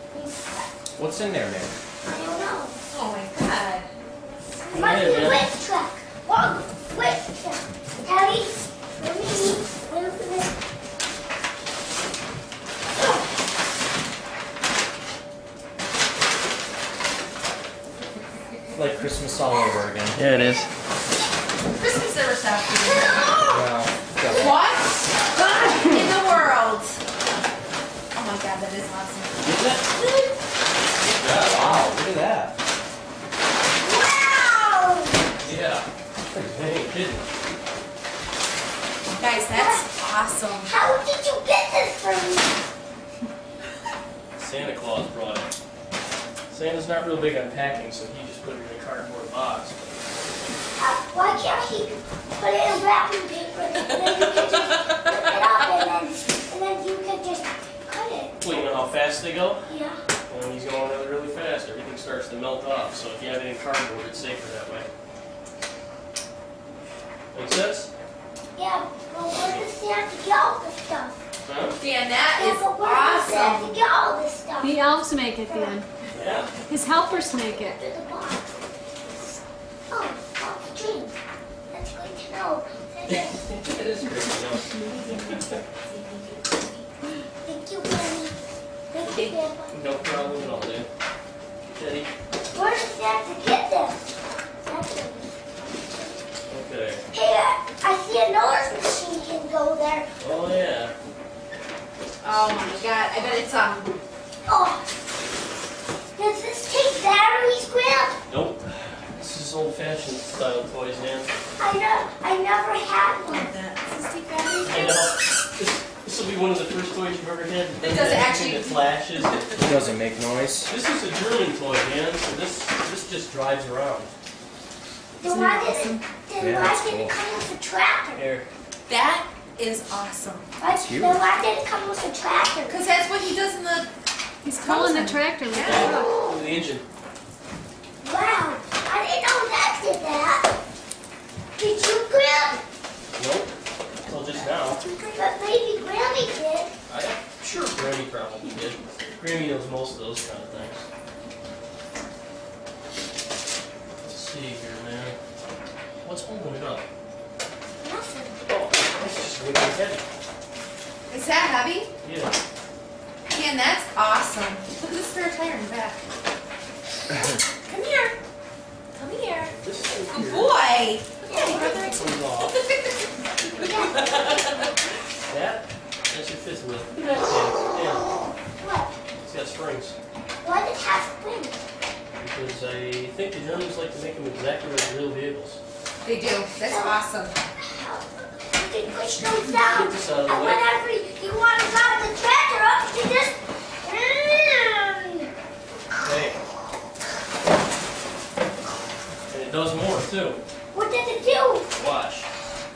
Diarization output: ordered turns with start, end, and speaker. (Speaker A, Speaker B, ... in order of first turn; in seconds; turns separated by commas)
Speaker A: 0.1-0.7, Speaker B: 0.9-1.8, Speaker A: 2.0-2.8, Speaker C: 2.9-3.9, Speaker D: 4.7-5.5, Speaker A: 4.7-10.5, Speaker B: 18.7-20.3, Speaker D: 20.1-20.7, Speaker C: 21.7-23.3, Speaker A: 22.9-23.6, Speaker B: 23.5-24.6, Speaker C: 24.3-27.0, Speaker C: 28.1-29.6, Speaker B: 29.4-29.8, Speaker A: 30.0-30.3, Speaker D: 31.1-31.8, Speaker B: 31.3-32.5, Speaker A: 33.8-35.2, Speaker D: 35.4-37.3, Speaker C: 39.2-40.7, Speaker A: 39.4-39.9, Speaker A: 40.6-42.5, Speaker D: 44.4-45.5, Speaker D: 46.5-49.9, Speaker A: 50.8-58.4, Speaker D: 58.4-59.6, Speaker A: 59.6-60.0, Speaker D: 60.3-64.9, Speaker D: 67.3-67.9, Speaker A: 68.5-71.2, Speaker D: 69.3-69.7, Speaker D: 71.4-71.8, Speaker C: 71.8-73.8, Speaker A: 72.3-74.8, Speaker E: 74.6-75.9, Speaker A: 75.5-75.8, Speaker D: 76.1-76.5, Speaker E: 76.6-77.8, Speaker A: 77.0-78.6, Speaker A: 79.9-81.1, Speaker A: 81.7-83.4, Speaker D: 83.1-84.7, Speaker C: 84.9-86.6, Speaker D: 85.2-85.6, Speaker A: 87.4-88.4, Speaker A: 88.9-89.8, Speaker C: 89.0-89.4, Speaker D: 89.7-90.9, Speaker C: 90.1-90.4, Speaker D: 91.7-92.1, Speaker A: 92.5-94.0, Speaker A: 94.6-95.3, Speaker D: 96.5-97.0, Speaker A: 97.1-100.1, Speaker D: 100.2-100.9, Speaker C: 102.2-104.0, Speaker A: 102.4-102.8, Speaker A: 104.5-104.8, Speaker A: 106.2-108.2, Speaker D: 108.3-111.3, Speaker A: 111.6-113.5, Speaker C: 113.2-114.7, Speaker A: 114.6-115.1, Speaker D: 114.6-119.7, Speaker C: 117.8-119.6, Speaker B: 119.6-120.7, Speaker D: 120.7-124.1, Speaker A: 125.2-128.2, Speaker C: 125.2-126.0, Speaker B: 126.4-127.2, Speaker D: 128.1-128.4, Speaker C: 128.9-130.5, Speaker A: 130.6-132.8, Speaker B: 130.8-131.2, Speaker C: 132.7-133.9, Speaker E: 134.4-136.1, Speaker C: 134.5-135.9, Speaker D: 135.6-136.8, Speaker A: 138.0-140.5, Speaker A: 141.6-142.6, Speaker D: 143.2-143.5, Speaker D: 144.0-144.8, Speaker C: 144.1-145.2, Speaker A: 145.1-146.7, Speaker D: 146.9-150.8, Speaker D: 154.0-155.2, Speaker D: 156.0-156.8, Speaker A: 157.8-158.4, Speaker D: 158.4-160.0, Speaker C: 161.1-161.9, Speaker D: 162.0-162.3, Speaker C: 163.3-166.0, Speaker C: 167.6-168.2, Speaker C: 168.9-169.6, Speaker D: 169.4-170.5, Speaker C: 170.1-172.9, Speaker A: 171.2-171.8, Speaker D: 171.7-172.6, Speaker C: 173.6-174.2, Speaker A: 173.6-174.2, Speaker D: 173.9-174.6, Speaker D: 175.3-178.1, Speaker A: 178.6-178.9, Speaker D: 179.1-179.9, Speaker A: 180.4-181.6, Speaker D: 182.2-185.6, Speaker C: 186.0-187.3, Speaker A: 186.6-187.0, Speaker A: 187.6-195.3, Speaker D: 189.7-190.6, Speaker D: 196.0-196.4, Speaker D: 199.3-200.4, Speaker A: 200.7-201.7, Speaker D: 201.7-202.3